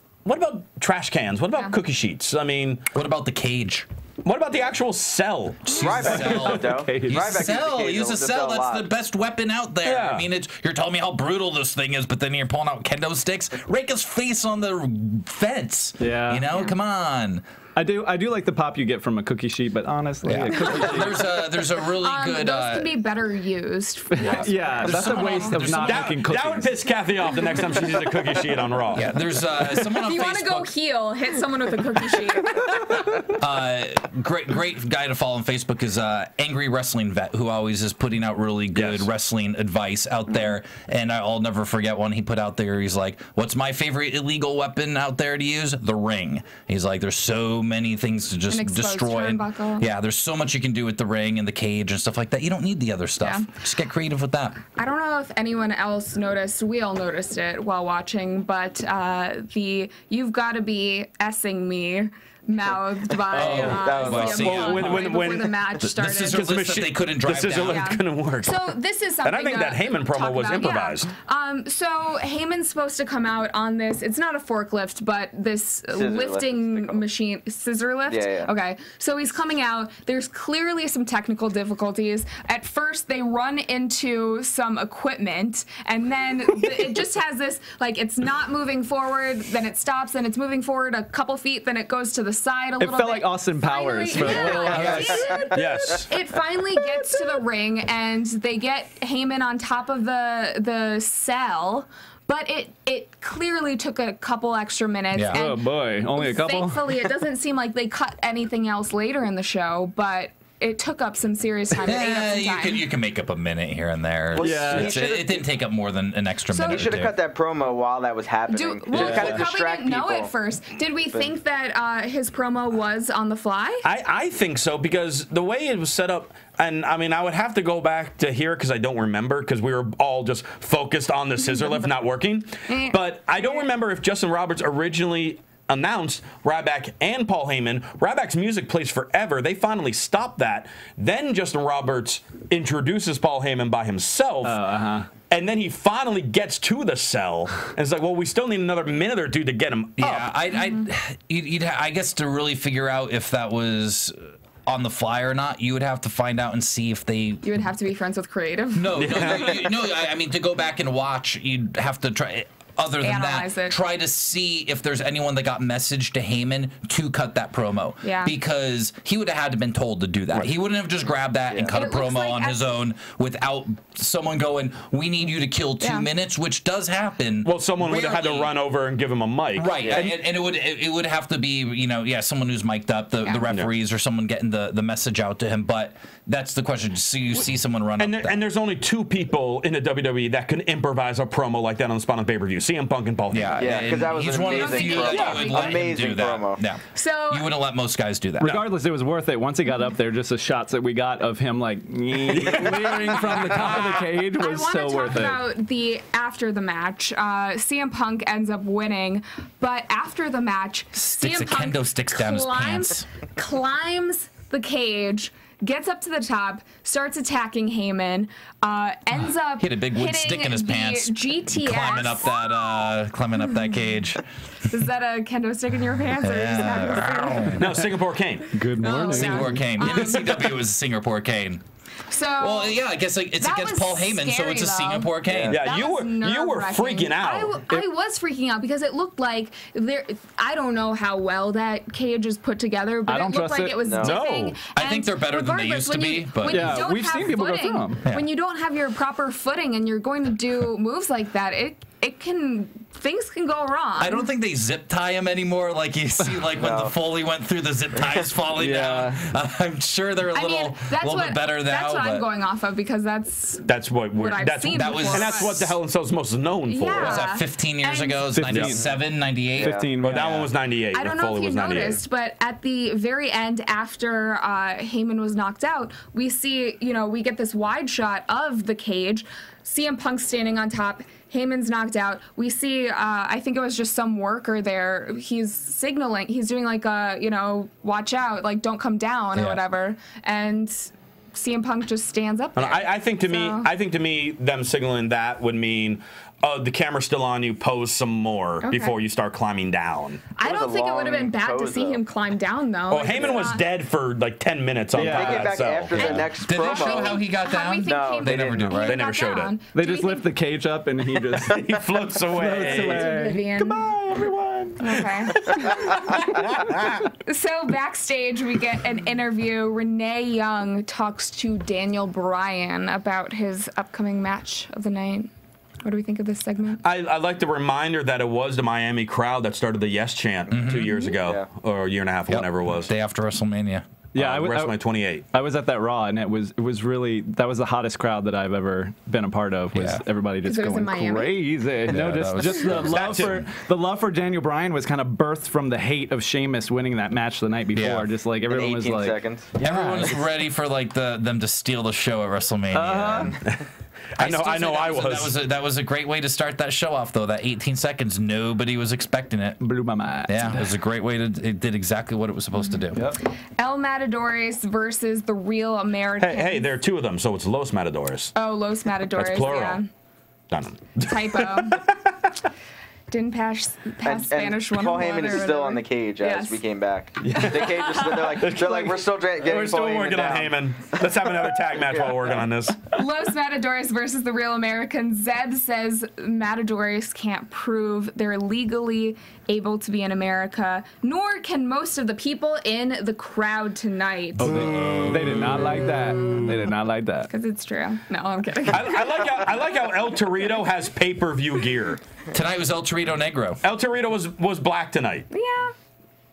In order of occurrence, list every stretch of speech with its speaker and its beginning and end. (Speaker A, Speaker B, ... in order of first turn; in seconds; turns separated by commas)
Speaker A: 0.2-2.8, Speaker B: 2.9-3.9, Speaker A: 4.2-6.4, Speaker B: 5.7-17.4, Speaker C: 5.7-8.9, Speaker D: 6.1-7.4, Speaker A: 9.8-10.2, Speaker D: 16.0-16.5, Speaker D: 17.8-21.2, Speaker B: 20.2-22.9, Speaker E: 20.6-21.0, Speaker E: 22.0-25.6, Speaker D: 24.2-26.7, Speaker B: 24.2-26.2, Speaker A: 25.7-29.1, Speaker B: 28.9-30.7, Speaker E: 30.0-32.8, Speaker B: 33.3-54.6, Speaker A: 38.7-39.1, Speaker E: 48.5-49.9, Speaker E: 53.2-53.5, Speaker E: 54.8-66.4, Speaker C: 63.3-64.9, Speaker B: 63.3-67.9, Speaker A: 63.5-65.6, Speaker A: 66.3-71.1, Speaker E: 67.6-105.6, Speaker C: 75.9-77.0, Speaker C: 78.1-78.5, Speaker D: 92.8-95.5, Speaker B: 94.1-95.4, Speaker A: 95.5-96.1, Speaker B: 105.1-105.4, Speaker D: 105.3-106.9, Speaker E: 106.1-112.8, Speaker B: 111.7-117.2, Speaker C: 114.3-115.5, Speaker D: 114.4-114.9, Speaker E: 116.5-116.9, Speaker C: 116.6-120.3, Speaker E: 118.5-123.9, Speaker A: 118.9-119.4, Speaker A: 123.8-144.6, Speaker E: 132.7-133.7, Speaker D: 144.4-145.1, Speaker A: 145.3-150.3, Speaker B: 150.0-157.6, Speaker E: 157.4-159.1, Speaker B: 158.7-178.5, Speaker A: 158.9-159.6, Speaker E: 163.0-163.8, Speaker E: 168.0-168.3, Speaker E: 171.7-172.7, Speaker E: 175.8-176.1, Speaker A: 177.4-180.0, Speaker B: 179.6-188.4, Speaker C: 179.8-180.1, Speaker A: 188.0-194.0, Speaker B: 193.3-198.6, Speaker C: 193.6-196.6, Speaker E: 194.4-195.8, Speaker A: 195.1-195.4, Speaker E: 196.9-197.5, Speaker A: 198.4-198.7, Speaker D: 198.4-205.5, Speaker A: 202.3-204.0, Speaker E: 204.4-222.9, Speaker B: 210.9-213.0, Speaker B: 219.6-224.2, Speaker E: 224.7-227.5, Speaker B: 226.2-227.8, Speaker A: 227.5-228.6, Speaker D: 228.5-229.6, Speaker E: 228.8-230.2, Speaker B: 229.1-231.6, Speaker A: 229.8-230.5, Speaker E: 232.1-232.8, Speaker B: 232.4-235.6, Speaker E: 233.4-254.3, Speaker C: 235.2-235.6, Speaker A: 235.5-237.5, Speaker D: 243.1-243.9, Speaker C: 243.8-244.2, Speaker A: 244.0-244.6, Speaker B: 244.7-246.9, Speaker D: 246.4-248.0, Speaker B: 254.0-262.3, Speaker C: 256.5-256.9, Speaker C: 258.0-259.0, Speaker E: 260.3-265.5, Speaker A: 263.6-267.2, Speaker B: 264.7-265.8, Speaker E: 266.7-268.2, Speaker B: 266.9-269.8, Speaker D: 268.3-268.9, Speaker A: 268.5-268.7, Speaker D: 269.6-270.5, Speaker C: 269.6-269.9, Speaker A: 270.0-272.0, Speaker E: 270.9-293.7, Speaker B: 289.3-289.6, Speaker A: 292.6-300.3, Speaker E: 298.6-299.0, Speaker E: 300.4-303.6, Speaker C: 300.4-302.0, Speaker A: 302.9-306.2, Speaker D: 304.9-305.6, Speaker C: 304.9-307.2, Speaker B: 305.9-309.0, Speaker E: 305.9-310.3, Speaker C: 307.8-308.8, Speaker A: 308.7-309.5, Speaker D: 309.7-317.0, Speaker A: 311.3-313.1, Speaker E: 312.7-313.9, Speaker E: 314.8-316.4, Speaker A: 315.3-317.0, Speaker E: 317.2-325.3, Speaker E: 325.8-326.8, Speaker A: 326.8-332.9, Speaker B: 330.5-330.9, Speaker C: 330.6-331.4, Speaker E: 330.9-331.1, Speaker B: 332.3-333.9, Speaker D: 334.1-334.8, Speaker A: 334.1-335.2, Speaker D: 335.3-350.0, Speaker B: 339.7-340.0, Speaker E: 340.4-341.4, Speaker B: 341.9-343.4, Speaker A: 342.7-343.4, Speaker B: 347.7-348.1, Speaker C: 348.4-350.2, Speaker B: 349.6-353.4, Speaker D: 352.7-353.4, Speaker A: 354.1-355.3, Speaker B: 354.2-359.6, Speaker D: 359.6-360.7, Speaker B: 360.3-363.0, Speaker D: 362.9-363.2, Speaker E: 363.6-366.7, Speaker A: 366.2-368.3, Speaker E: 368.3-369.9, Speaker A: 369.1-369.8, Speaker A: 370.5-372.1, Speaker E: 371.0-371.9, Speaker E: 373.1-376.6, Speaker C: 374.0-381.1, Speaker A: 377.2-382.8, Speaker E: 377.4-378.4, Speaker C: 381.7-382.4, Speaker E: 382.9-394.7, Speaker D: 394.5-397.3, Speaker A: 394.7-395.1, Speaker E: 397.3-399.4, Speaker A: 398.7-402.0, Speaker B: 402.3-403.6, Speaker A: 403.6-405.3, Speaker E: 405.3-405.7